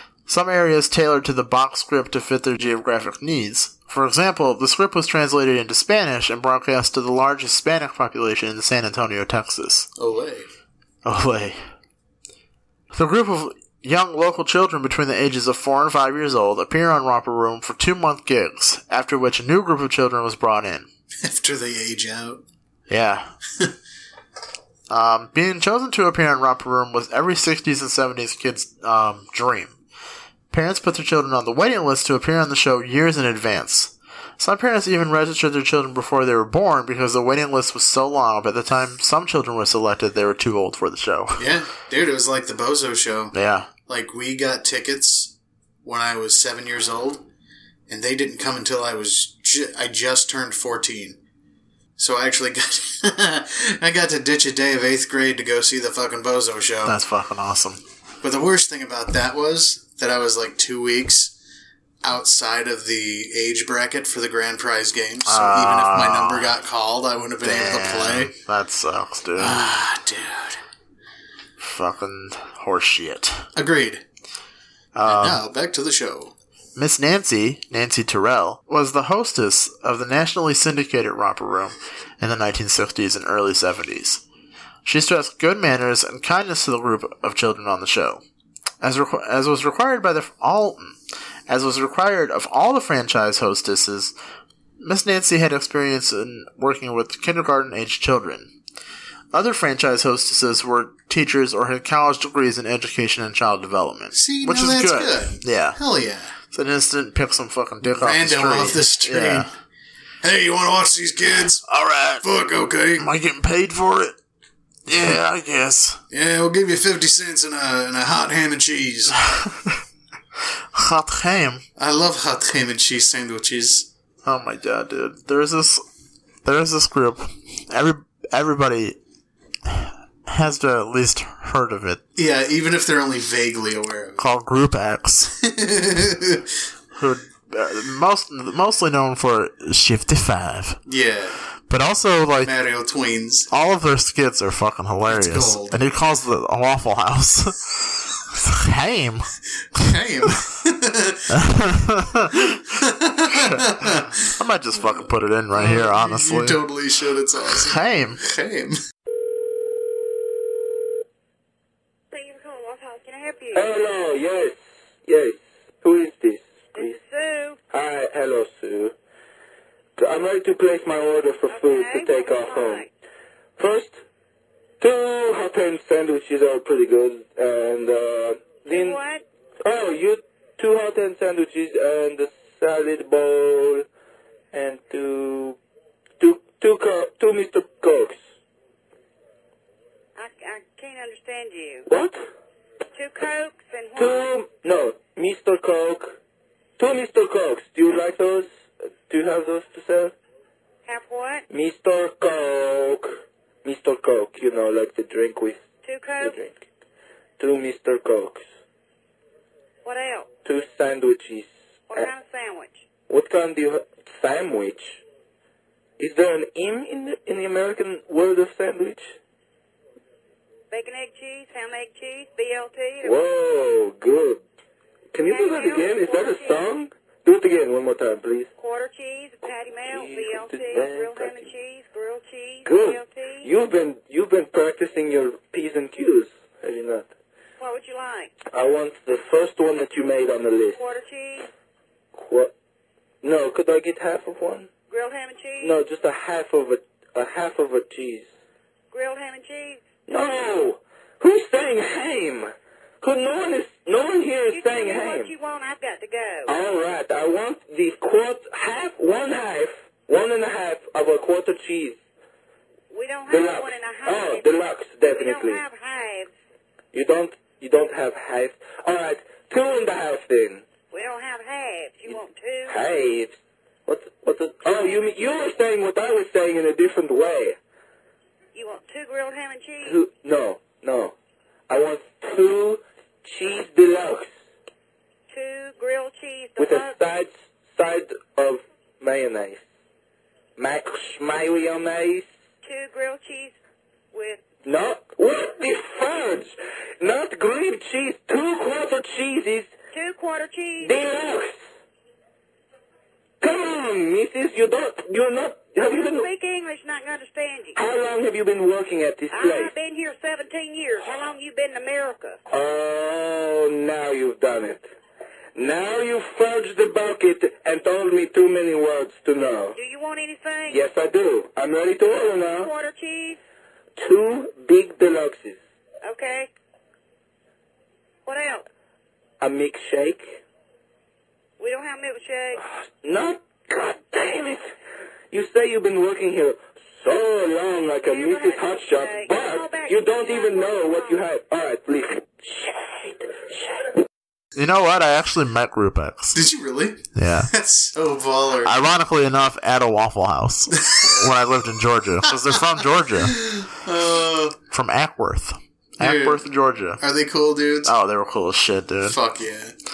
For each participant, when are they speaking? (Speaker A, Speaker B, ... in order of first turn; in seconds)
Speaker A: 0.3-9.9, 11.1-11.6, 12.9-20.9, 22.9-23.3, 24.9-29.8, 30.5-41.5, 43.3-43.7, 56.9-57.8, 65.2-66.5, 67.4-69.6, 71.6-73.4, 75.0-75.4, 76.8-84.2, 84.8-88.2, 88.8-91.0, 91.5-94.1, 94.8-98.5, 99.3-105.8, 106.5-109.5, 111.7-112.2, 113.0-114.1, 114.9-116.0, 119.2-119.8, 120.7-121.6, 124.2-125.8, 126.5-129.0, 129.7-132.0, 134.2-135.3, 136.9-140.8, 141.7-142.5, 143.5-149.8, 151.3-152.6, 154.4-156.6, 157.5-158.2, 344.6-346.4, 347.1-347.5, 348.6-353.4, 354.7-357.0, 357.9-359.2
Speaker B: 10.0-10.5, 21.2-22.4, 41.4-45.3, 45.8-47.2, 47.9-51.2, 52.0-57.0, 58.2-61.3, 62.0-68.3, 69.4-70.6, 73.6-74.0, 75.1-76.3, 104.1-106.4, 107.8-109.5, 110.2-111.6, 112.2-113.1, 116.1-119.2, 121.8-123.9, 132.2-134.2, 135.4-136.5, 140.9-141.4, 142.4-143.5, 145.1-145.8, 149.8-151.2, 152.7-158.8, 346.3-348.7, 350.9-351.1, 353.2-354.6, 356.0-356.4, 357.0-357.9, 359.1-359.7
Speaker C: 162.1-163.7, 166.7-167.6, 171.5-172.9, 178.7-179.2, 190.2-191.9, 192.9-194.3, 200.9-201.4, 205.8-206.4, 209.8-210.3, 211.9-212.8, 220.7-223.2, 225.2-226.7, 228.6-233.5, 237.6-238.3, 240.7-241.5, 244.9-245.8, 248.9-249.9, 254.5-256.5, 262.9-266.3, 270.9-272.8, 274.7-275.0, 278.5-280.0, 285.3-287.0, 292.6-293.6, 294.1-294.4, 299.9-301.0, 305.8-307.8, 309.3-312.4, 319.8-320.8, 322.5-323.4, 326.0-326.5, 328.3-328.6, 331.6-332.6, 338.0-341.2
Speaker D: 163.5-164.5, 165.1-167.0, 167.7-168.9, 170.0-172.9, 173.6-173.9, 174.8-179.0, 179.6-183.9, 184.5-185.6, 186.2-188.2, 191.9-192.2, 193.9-196.2, 196.8-198.5, 199.1-200.1, 201.5-205.6, 206.2-206.6, 207.4-208.4, 210.4-212.1, 213.1-215.0, 216.0-219.1, 223.0-224.4, 225.1-228.5, 229.9-231.5, 232.6-237.1, 238.5-240.8, 242.2-242.5, 243.2-244.7, 245.6-248.3, 250.1-255.3, 256.5-262.0, 263.3-265.6, 266.9-270.6, 272.1-273.3, 273.9-277.6, 279.9-281.1, 281.7-284.3, 286.6-289.6, 290.6-292.2, 294.6-299.7, 300.8-301.5, 303.4-306.3, 307.8-309.7, 312.5-314.8, 315.6-319.8, 320.7-322.7, 324.0-325.6, 329.4-330.4, 332.6-334.6, 335.3-343.3